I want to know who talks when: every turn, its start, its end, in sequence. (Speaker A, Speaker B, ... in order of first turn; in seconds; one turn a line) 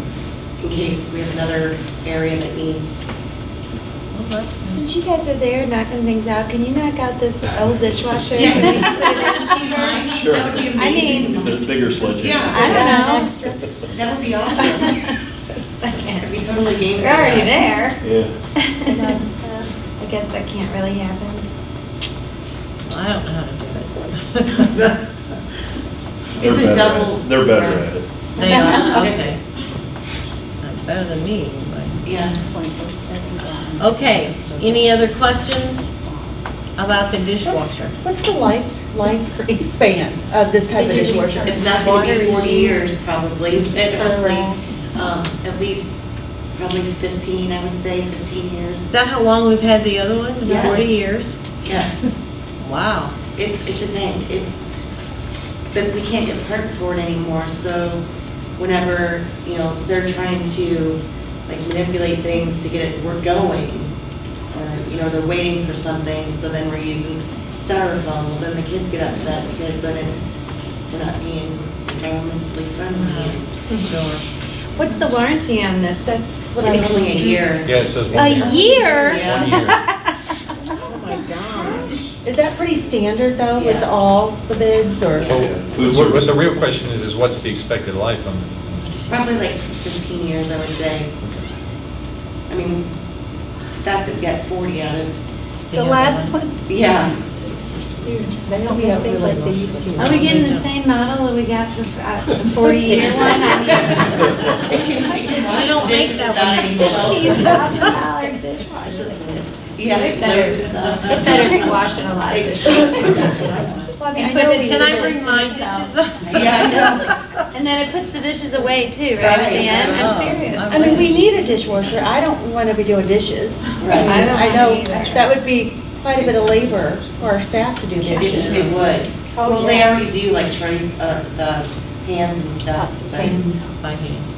Speaker A: 0.6-3.1
Speaker B: 4.1-4.8
Speaker C: 4.7-10.2
Speaker A: 8.3-11.5
Speaker D: 10.1-13.0
Speaker C: 10.7-11.7
Speaker A: 12.2-12.9
Speaker E: 12.5-13.6
Speaker C: 12.5-13.5
Speaker A: 13.9-14.9
Speaker C: 14.6-14.9
Speaker C: 15.5-16.3
Speaker A: 16.2-17.6
Speaker C: 16.9-18.0
Speaker D: 18.0-18.3
Speaker C: 18.6-21.5
Speaker E: 18.9-19.3
Speaker B: 22.8-24.8
Speaker D: 26.3-28.1
Speaker A: 26.4-27.9
Speaker B: 28.4-29.4
Speaker C: 28.4-29.0
Speaker A: 28.8-29.2
Speaker B: 30.6-32.0
Speaker A: 32.0-32.4
Speaker E: 32.4-34.8
Speaker B: 33.8-35.9
Speaker B: 36.8-37.9
Speaker E: 37.4-42.9
Speaker C: 40.7-42.7
Speaker A: 41.1-46.0
Speaker E: 43.6-44.6
Speaker A: 46.5-48.9
Speaker B: 48.8-51.4
Speaker A: 50.4-51.1
Speaker A: 51.6-52.2
Speaker B: 52.6-53.1
Speaker A: 53.4-54.6
Speaker A: 55.7-58.0
Speaker A: 58.6-63.9
Speaker A: 64.5-70.3
Speaker A: 70.9-73.5
Speaker B: 72.9-74.2
Speaker C: 74.7-76.4
Speaker A: 76.5-77.8
Speaker E: 76.6-77.5
Speaker F: 77.6-79.8
Speaker C: 78.1-80.0
Speaker A: 78.4-79.5
Speaker B: 80.9-81.8
Speaker E: 82.2-85.3
Speaker A: 83.5-83.9
Speaker A: 85.2-85.5
Speaker D: 85.2-86.5
Speaker F: 85.3-89.0
Speaker B: 88.8-89.3
Speaker A: 89.1-91.1
Speaker A: 92.5-93.0
Speaker A: 93.8-95.2
Speaker B: 95.7-97.1
Speaker E: 95.7-97.1
Speaker A: 96.7-97.1
Speaker E: 98.0-100.3
Speaker B: 98.6-100.7
Speaker C: 100.0-104.3
Speaker E: 102.9-103.3
Speaker A: 103.7-104.0
Speaker A: 104.6-107.8
Speaker B: 105.4-107.8
Speaker C: 106.8-113.5
Speaker A: 108.8-113.5
Speaker B: 113.4-113.9
Speaker E: 113.9-115.1
Speaker C: 114.1-121.1
Speaker B: 114.6-117.2
Speaker A: 116.2-117.1
Speaker A: 119.2-120.1
Speaker B: 119.7-122.2
Speaker E: 120.7-128.8
Speaker A: 123.8-124.3
Speaker C: 123.9-125.3
Speaker C: 128.0-128.7
Speaker A: 128.2-133.4
Speaker E: 129.4-129.8
Speaker C: 129.4-129.8
Speaker E: 132.7-133.6
Speaker B: 133.8-134.3